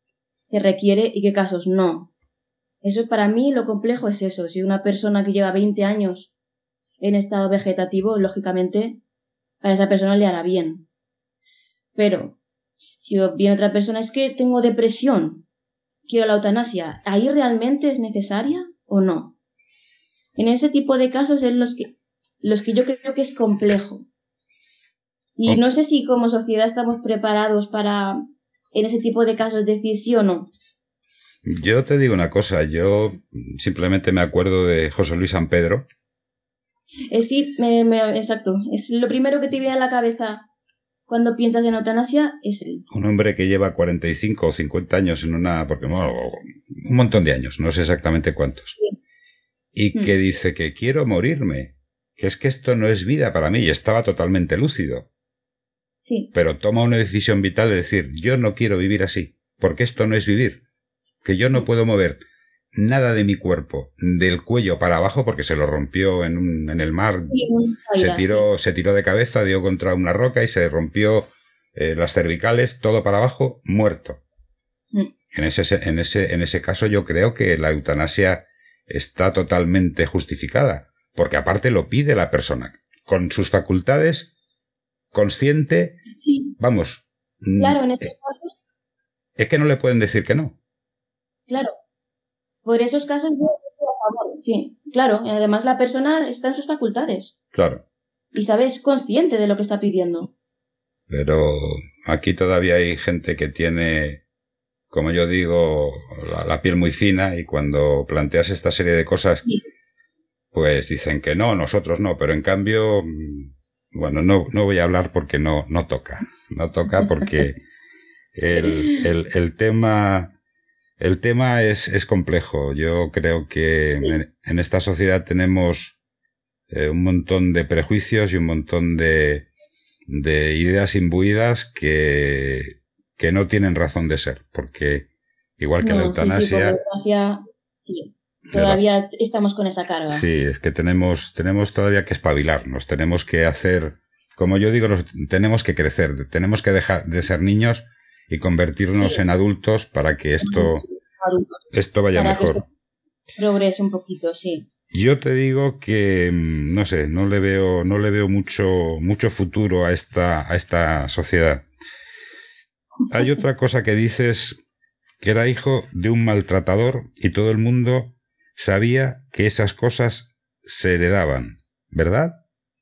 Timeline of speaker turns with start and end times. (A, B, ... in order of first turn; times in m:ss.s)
0:00.5-0:02.1 A
0:02.8-0:06.3 A
0:07.0-0:09.0 A
0:09.6-0:10.8 A
0:12.0-0:12.4 A
0:13.0-0:15.4 A
0:16.1-0:19.3 A
0:20.4-0:24.1 A
0:25.4-0:28.2 A
0:28.7-0:30.5 A
0:31.4-0:35.8 B
0:37.1-0:40.4 A
0:41.1-0:42.8 A
0:42.9-0:48.7 B
0:49.7-0:55.0 B
0:56.0-0:56.3 A
0:56.3-1:00.6 B
1:01.2-1:02.2 B
1:02.7-1:07.4 B
1:07.3-1:08.4 A
1:08.0-1:14.2 B
1:15.3-1:24.3 B
1:25.1-1:26.0 B
1:26.1-1:26.6 A
1:26.6-1:28.1 B
1:27.6-1:28.6 A
1:29.4-1:30.5 B
1:31.5-1:31.7 A
1:32.6-1:37.3 A
1:37.5-1:37.8 B
1:38.3-1:40.3 A
1:41.1-1:44.2 B
1:44.9-1:49.4 B
1:50.5-1:57.6 B
1:58.3-2:00.3 B
2:01.0-2:06.0 B
2:06.7-2:09.5 B
2:10.1-2:15.0 B
2:15.6-2:16.8 B
2:15.8-2:20.2 A
2:18.5-2:18.8 B
2:20.1-2:30.8 B
2:28.9-2:29.2 A
2:30.4-2:31.6 A
2:31.7-2:32.6 B
2:32.2-2:32.6 A
2:33.4-2:34.7 A
2:34.9-2:41.6 B
2:43.1-2:44.6 B
2:45.2-2:52.4 B